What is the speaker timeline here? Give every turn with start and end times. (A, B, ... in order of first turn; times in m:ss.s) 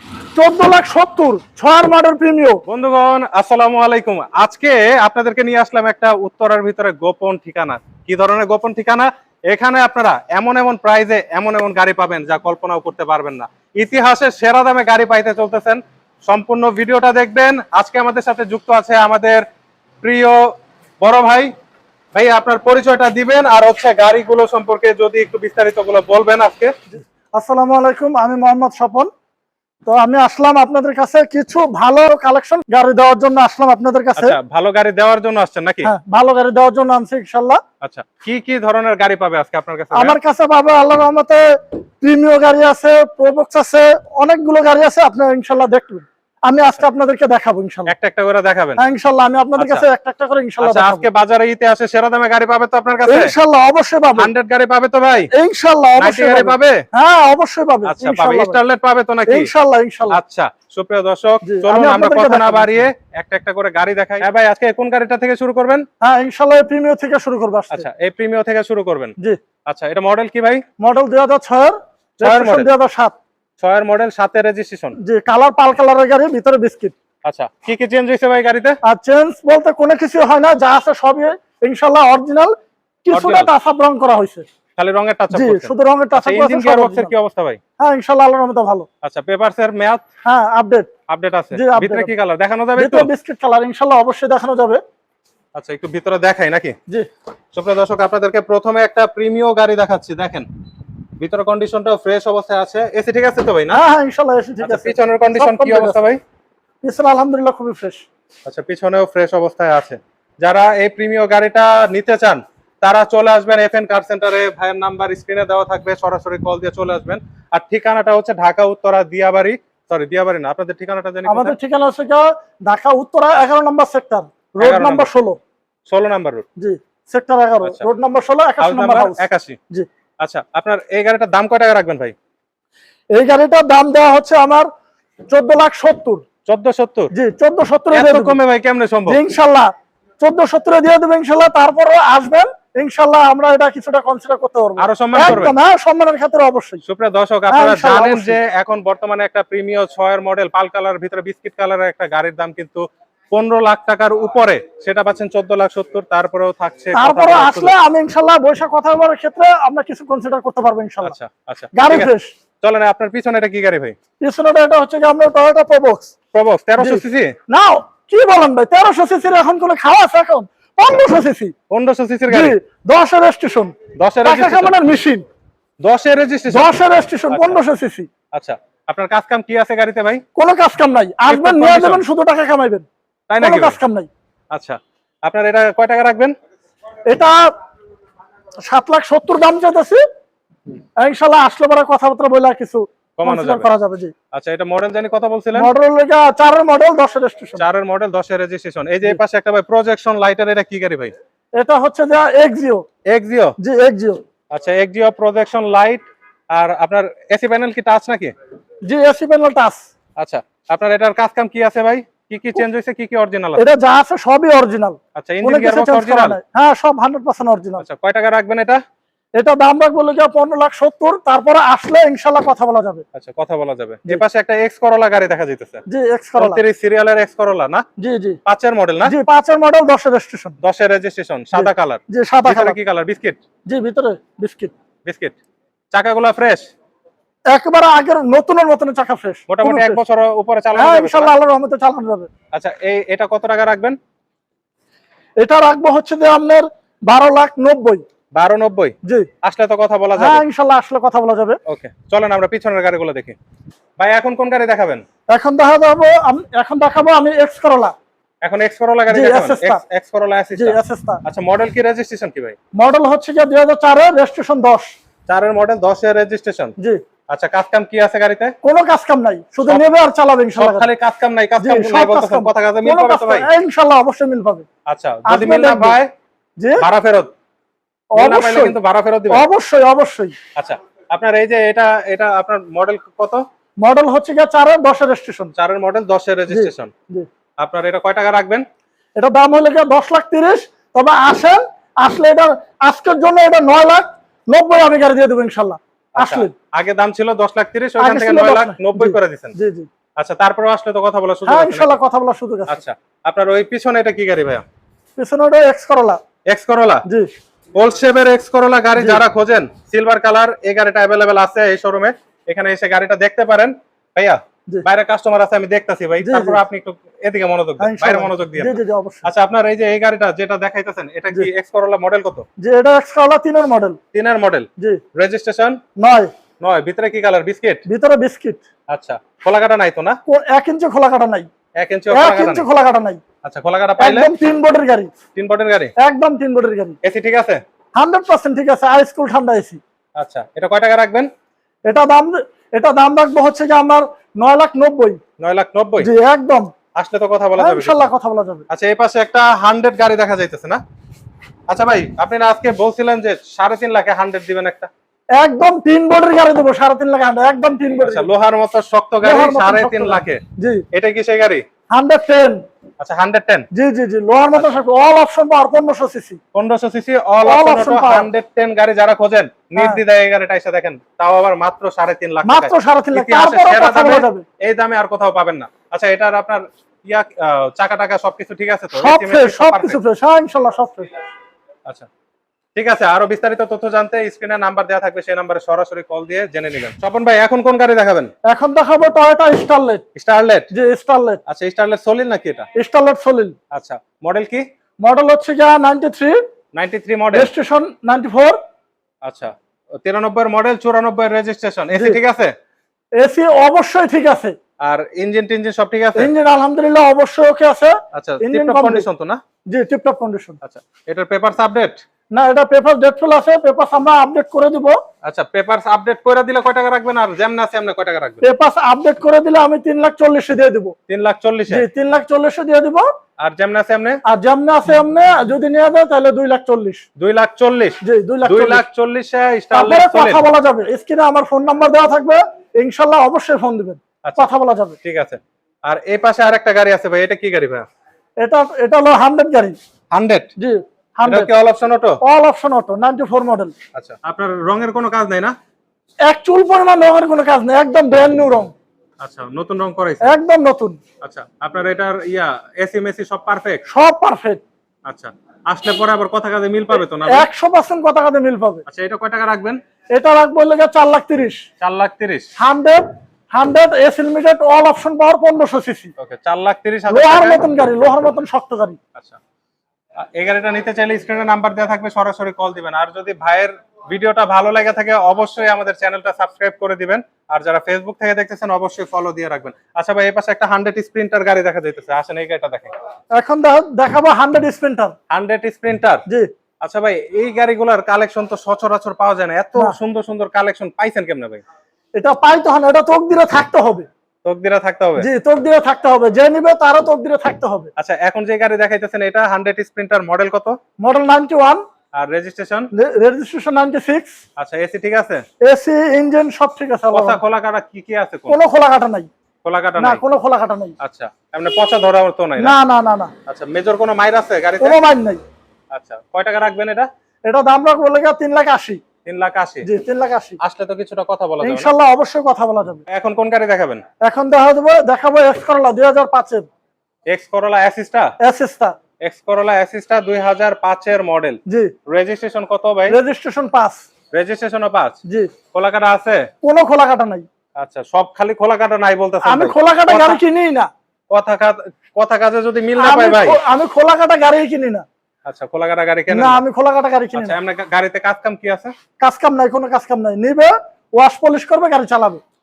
0:00.4-0:02.6 A
0:02.7-0:19.4 B
0:20.0-0:20.4 B
0:21.0-0:21.5 B
0:22.1-0:26.7 B
0:27.4-0:29.1 A
0:29.9-0:34.4 A
0:34.2-0:35.9 B
0:35.8-0:37.6 A
0:37.8-0:40.2 B
0:39.9-0:41.4 A
0:42.0-0:47.9 A
0:47.9-0:48.8 B
0:48.8-0:51.1 A
0:49.6-0:49.8 B
0:50.6-0:53.3 B
0:53.1-0:54.3 A
0:54.2-0:55.3 B
0:55.3-0:58.6 A
0:56.0-0:56.8 B
0:57.9-0:59.5 B
0:59.3-1:00.2 A
1:00.1-1:05.8 B
1:01.4-1:02.9 A
1:06.0-1:07.8 A
1:07.7-1:09.2 B
1:09.7-1:10.6 B
1:10.8-1:13.2 A
1:12.2-1:12.7 B
1:13.6-1:15.0 B
1:15.0-1:16.9 A
1:17.2-1:18.8 B
1:18.8-1:22.5 A
1:23.1-1:24.5 A
1:23.1-1:23.5 B
1:24.8-1:27.6 B
1:25.3-1:27.1 A
1:27.8-1:28.9 A
1:29.0-1:30.0 B
1:30.3-1:30.9 A
1:31.1-1:33.1 B
1:31.5-1:32.1 A
1:32.8-1:34.8 A
1:35.6-1:36.8 B
1:37.5-1:40.5 B
1:41.2-1:43.8 B
1:43.7-1:46.0 A
1:44.6-1:46.2 B
1:46.8-1:48.0 A
1:48.5-2:01.6 B
2:01.3-2:05.4 A
2:04.6-2:05.1 B
2:05.9-2:06.5 B
2:06.6-2:09.9 A
2:08.6-2:09.6 B
2:10.2-2:12.1 B
2:13.1-2:14.7 A
2:15.3-2:16.2 A
2:16.5-2:17.1 B
2:17.1-2:18.4 A
2:17.9-2:19.2 B
2:19.1-2:19.7 A
2:20.2-2:26.8 A
2:24.8-2:25.6 B
2:26.8-2:37.7 B
2:27.5-2:28.4 A
2:36.9-2:41.2 A
2:41.0-2:44.0 B
2:41.7-2:42.3 A
2:44.2-2:46.1 A
2:46.3-2:47.3 B
2:46.8-2:51.5 A
2:51.7-2:52.6 B
2:52.3-2:53.7 A
2:54.0-2:54.7 B
2:54.2-2:55.2 A
2:55.8-2:56.8 B
2:56.5-2:58.1 A
2:57.3-2:57.6 B
2:58.3-3:00.2 B
3:00.4-3:02.9 A
3:01.3-3:02.0 B
3:03.3-3:03.8 B
3:03.4-3:04.1 A
3:04.5-3:06.3 B
3:07.1-3:07.4 A
3:08.7-3:10.0 A
3:11.0-3:14.1 A
3:13.2-3:13.7 B
3:14.3-3:15.7 B
3:15.6-3:17.6 A
3:17.6-3:21.1 B
3:21.6-3:22.8 A
3:23.1-3:23.6 B
3:23.6-3:24.2 A
3:24.5-3:26.0 B
3:26.5-3:28.3 B
3:28.9-3:29.9 A
3:30.2-3:33.6 B
3:33.6-3:37.8 A
3:35.2-3:36.4 B
3:37.8-3:38.8 B
3:39.4-3:43.0 A
3:43.1-3:45.8 B
3:45.9-3:46.6 A
3:46.4-3:47.8 B
3:48.0-3:48.4 A
3:48.4-3:49.2 B
3:49.0-3:50.6 A
3:50.6-3:53.4 B
3:51.6-3:52.8 A
3:53.7-3:54.7 A
3:55.0-3:55.4 B
3:55.9-3:56.6 B
3:57.5-4:00.0 A
3:59.5-4:01.3 B
4:00.8-4:02.3 A
4:02.5-4:04.0 B
4:05.4-4:08.0 A
4:08.4-4:10.4 B
4:10.2-4:11.6 A
4:11.7-4:13.4 B
4:14.0-4:15.0 B
4:15.3-4:17.9 A
4:18.4-4:22.6 B
4:19.1-4:19.8 A
4:20.6-4:21.2 A
4:22.8-4:24.9 A
4:25.3-4:26.8 B
4:27.3-4:28.6 B
4:28.6-4:30.9 A
4:29.6-4:29.9 B
4:30.6-4:33.5 B
4:31.6-4:34.7 A
4:34.9-4:36.1 B
4:35.3-4:36.0 A
4:36.8-4:37.3 B
4:38.2-4:38.8 A
4:38.2-4:39.5 B
4:39.3-4:40.3 A
4:40.6-4:43.4 B
4:43.8-4:45.5 A
4:45.6-4:46.9 B
4:46.5-4:47.3 A
4:47.6-4:48.6 B
4:49.2-4:56.5 A
4:56.2-4:59.5 B
4:58.0-4:59.9 A
5:00.2-5:02.0 B
5:01.5-5:02.8 A
5:02.7-5:04.6 B
5:05.2-5:06.2 A
5:06.5-5:07.0 B
5:07.8-5:22.4 B
5:09.0-5:09.2 A
5:16.2-5:16.6 A
5:17.8-5:19.3 A
5:22.6-5:24.0 A
5:24.1-5:25.8 B
5:26.0-5:26.3 A
5:26.6-5:27.8 B
5:27.9-5:28.6 A
5:28.9-5:30.2 B
5:30.3-5:31.5 A
5:31.8-5:32.7 B
5:32.1-5:33.2 A
5:33.4-5:34.3 B
5:34.0-5:35.1 A
5:35.4-5:35.9 B
5:36.0-5:37.0 A
5:37.0-5:37.6 B
5:38.0-5:39.8 A
5:40.2-5:41.3 B
5:41.9-5:45.2 A
5:45.4-5:46.1 B
5:46.0-5:46.7 A
5:47.0-5:48.0 B
5:47.6-5:48.7 A
5:48.7-5:50.8 B
5:51.7-5:54.9 B
5:55.4-5:58.3 A
5:58.0-6:00.4 B
5:59.2-6:00.8 A
6:00.9-6:01.6 B
6:01.9-6:02.6 A
6:03.0-6:03.7 B
6:03.7-6:06.4 A
6:06.5-6:20.0 B
6:07.4-6:08.3 A
6:12.4-6:14.4 A
6:18.9-6:21.1 A
6:22.8-6:28.3 B
6:28.5-6:30.0 A
6:30.2-6:30.7 B
6:30.7-6:31.4 A
6:31.5-6:32.7 B
6:32.8-6:33.6 A
6:33.7-6:34.6 B
6:35.0-6:36.4 A
6:36.8-6:37.5 B
6:37.3-6:38.6 A
6:39.2-6:42.5 B
6:43.2-6:44.5 A
6:44.8-6:46.3 B
6:46.2-6:49.0 A
6:48.1-6:49.4 B
6:49.7-6:50.6 A
6:50.6-6:52.0 B
6:52.3-6:55.0 A
6:55.2-6:58.4 B
6:58.4-7:00.9 A
7:01.1-7:01.9 B
7:01.7-7:03.1 A
7:03.4-7:04.2 B
7:04.3-7:07.0 A
7:07.2-7:10.5 B
7:08.0-7:08.8 A
7:09.7-7:15.0 A
7:15.0-7:17.9 B
7:18.4-7:19.8 A
7:20.1-7:20.5 B
7:20.6-7:21.5 A
7:21.2-7:22.2 B
7:22.2-7:23.7 A
7:23.9-7:25.5 B
7:26.3-7:28.7 A
7:29.2-7:30.4 B
7:30.2-7:31.0 A
7:31.2-7:33.8 B
7:33.9-7:34.6 A
7:35.1-7:37.5 B
7:37.3-7:38.8 A
7:38.9-7:39.8 B
7:40.1-7:41.6 A
7:41.8-7:42.5 B
7:42.6-7:46.1 A
7:46.2-7:47.6 B
7:47.1-7:49.0 A
7:50.4-8:02.9 B
8:03.4-8:05.1 A
8:05.3-8:06.2 B
8:06.8-8:11.6 B
8:12.2-8:14.1 A
8:14.4-8:15.3 B
8:15.2-8:17.9 A
8:18.0-8:20.8 B
8:21.0-8:21.8 A
8:22.2-8:22.9 B
8:22.9-8:24.4 A
8:24.6-8:25.4 B
8:25.6-8:27.4 A
8:27.1-8:28.6 B
8:28.5-8:29.3 A
8:29.6-8:30.2 B
8:30.0-8:30.9 A
8:31.0-8:32.8 B
8:32.6-8:33.3 A
8:33.5-8:35.0 B
8:34.8-8:35.4 A
8:35.9-8:37.1 B
8:37.5-8:39.0 A
8:39.2-8:39.9 B
8:39.8-8:40.6 A
8:40.6-8:41.9 B
8:41.6-8:43.0 A
8:43.1-8:44.0 B
8:44.2-8:46.7 A
8:47.3-8:48.3 B
8:48.4-8:48.9 A
8:49.2-8:53.2 B
8:51.7-8:51.9 A
8:53.1-8:54.0 A
8:54.3-8:55.2 B
8:55.3-8:55.5 A
8:55.7-8:56.5 B
8:56.6-8:57.5 A
8:57.8-9:00.4 B
8:59.4-9:00.9 A
9:01.3-9:03.6 B
9:03.0-9:05.0 A
9:05.5-9:06.6 B
9:06.3-9:07.6 A
9:07.4-9:08.9 B
9:09.2-9:12.4 A